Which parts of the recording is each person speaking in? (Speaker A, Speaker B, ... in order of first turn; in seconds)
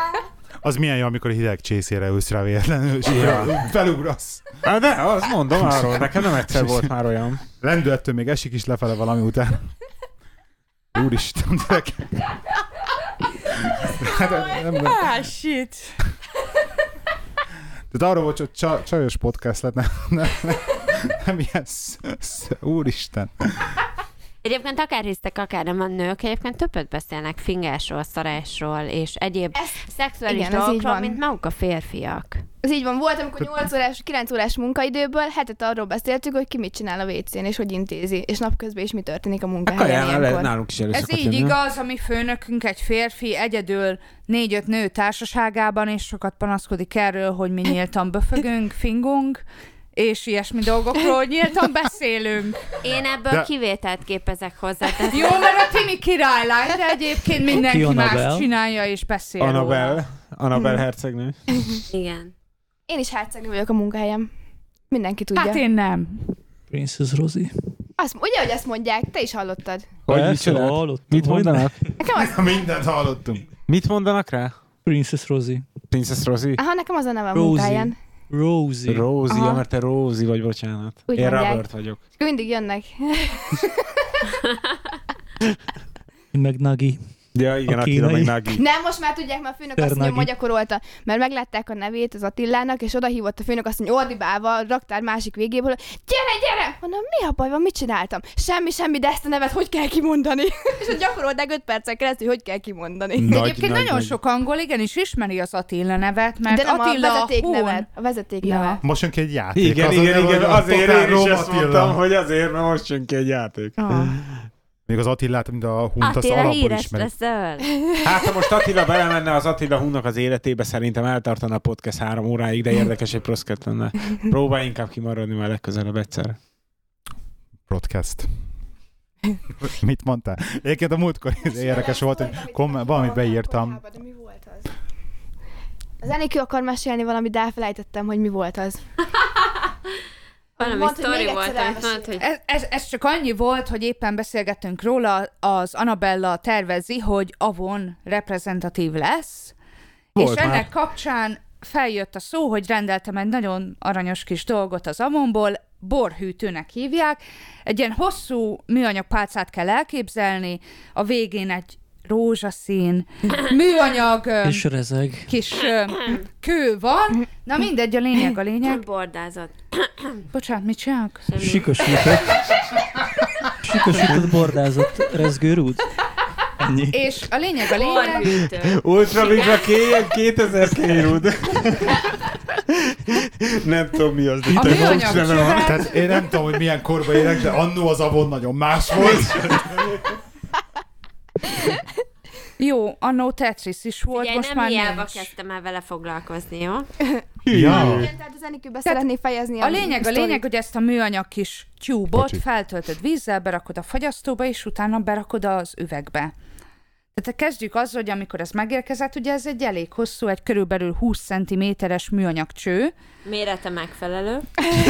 Speaker A: 0.6-4.6, 5.6-6.9, 7.6-9.7, 10.9-12.4, 13.6-15.1, 17.9-23.8, 72.1-73.5, 108.8-112.0, 114.9-117.1, 127.7-128.3, 129.6-133.8, 185.6-190.0, 197.5-198.1, 202.1-202.4
Speaker B: 3.1-3.5, 4.6-7.4, 39.7-41.6, 59.4-61.4, 70.1-71.8, 73.7-74.5, 75.9-76.6, 78.9-82.0, 87.3-88.6, 103.2-104.2, 109.6-114.5, 118.0-126.4, 150.2-150.7, 178.5-185.9, 197.5-198.1
Speaker C: 15.0-15.7, 40.9-49.4, 50.0-52.6, 55.1-60.0, 65.4-66.2, 103.3-107.9, 108.4-108.8, 113.8-114.1, 142.2-149.5, 150.2-164.7, 165.3-168.8, 170.3-171.3, 176.9-178.4, 184.5-186.0, 192.6-195.3, 199.6-206.3, 207.2-212.9
Speaker D: 24.4-32.4, 52.8-55.6, 61.9-62.3, 116.0-117.7, 140.6-142.2, 168.6-170.2, 171.3-172.1, 177.7-179.7, 194.1-196.9, 213.2-214.5
Speaker E: 29.6-31.2, 32.6-40.5, 62.9-64.3, 64.9-65.6, 68.0-70.0, 72.0-72.5, 76.6-78.0, 79.3-79.6, 81.1-83.9, 88.5-103.4, 106.5-108.8, 131.4-134.7, 136.0-138.8, 140.6-142.2, 197.7-200.4
Speaker F: 57.6-58.5, 66.7-67.5, 70.1-72.0, 74.9-75.7, 77.3-79.1, 86.3-87.0, 87.7-88.5, 89.8-90.3, 164.4-165.3, 171.4-172.4, 173.6-175.8, 176.6-177.1